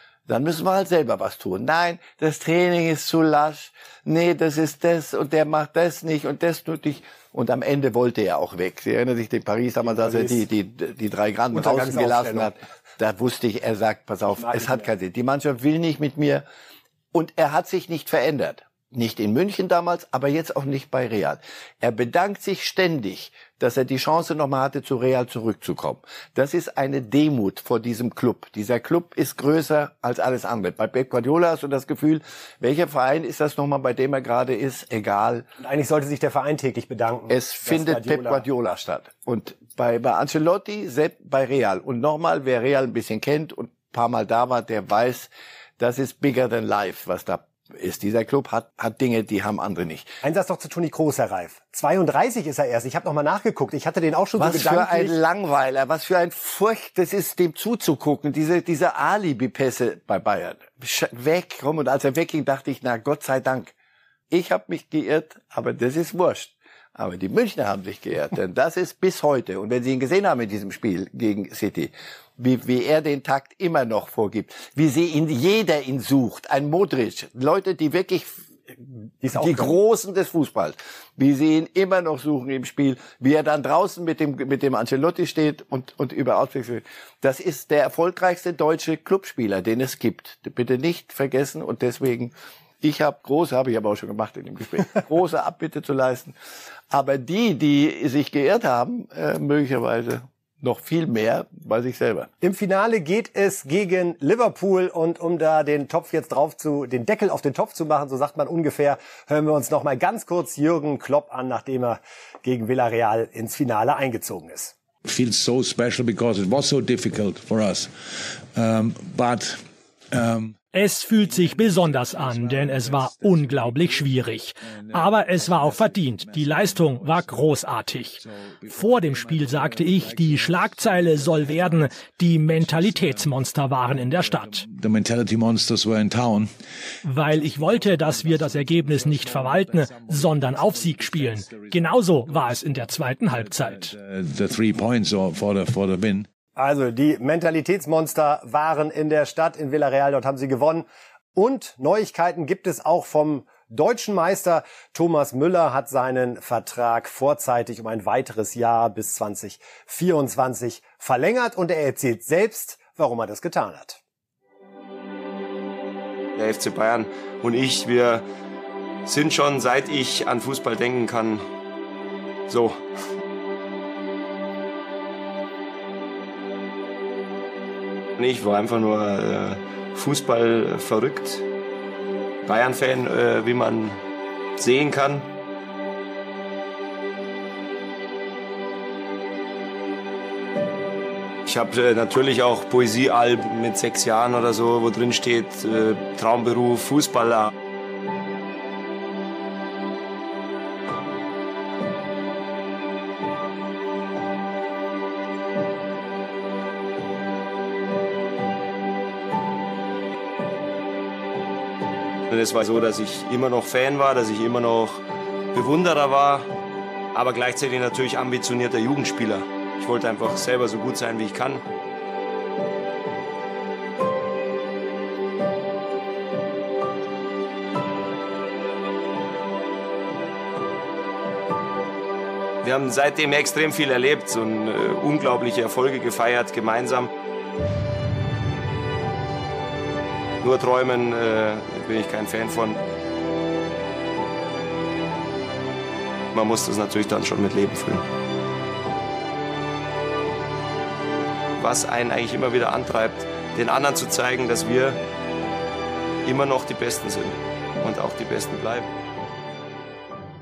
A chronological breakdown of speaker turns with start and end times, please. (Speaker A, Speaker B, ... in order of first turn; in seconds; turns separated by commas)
Speaker A: 0.3-16.4, Speaker B: 9.8-10.4, Speaker B: 11.5-12.5, Speaker B: 14.4-14.9, Speaker A: 17.1-35.5, Speaker B: 35.6-38.5, Speaker A: 37.3-50.1, Speaker B: 50.2-55.1, Speaker A: 54.4-63.7, Speaker A: 64.3-78.7, Speaker B: 79.2-79.8, Speaker A: 79.3-96.3, Speaker A: 96.9-102.3, Speaker B: 102.4-114.7, Speaker C: 115.0-120.6, Speaker D: 120.7-134.6, Speaker C: 121.1-127.6, Speaker C: 128.2-136.5, Speaker D: 137.0-143.9, Speaker C: 137.3-146.3, Speaker B: 146.6-164.0, Speaker E: 166.3-168.2, Speaker E: 169.1-171.4, Speaker E: 172.5-172.8, Speaker E: 178.2-181.4, Speaker E: 182.4-184.0, Speaker E: 184.6-185.3, Speaker E: 191.4-197.5, Speaker E: 212.3-215.0, Speaker E: 215.5-216.5, Speaker E: 217.1-221.6, Speaker E: 232.6-237.1, Speaker E: 240.4-242.8, Speaker E: 246.3-248.0, Speaker E: 251.6-255.0, Speaker E: 256.2-258.9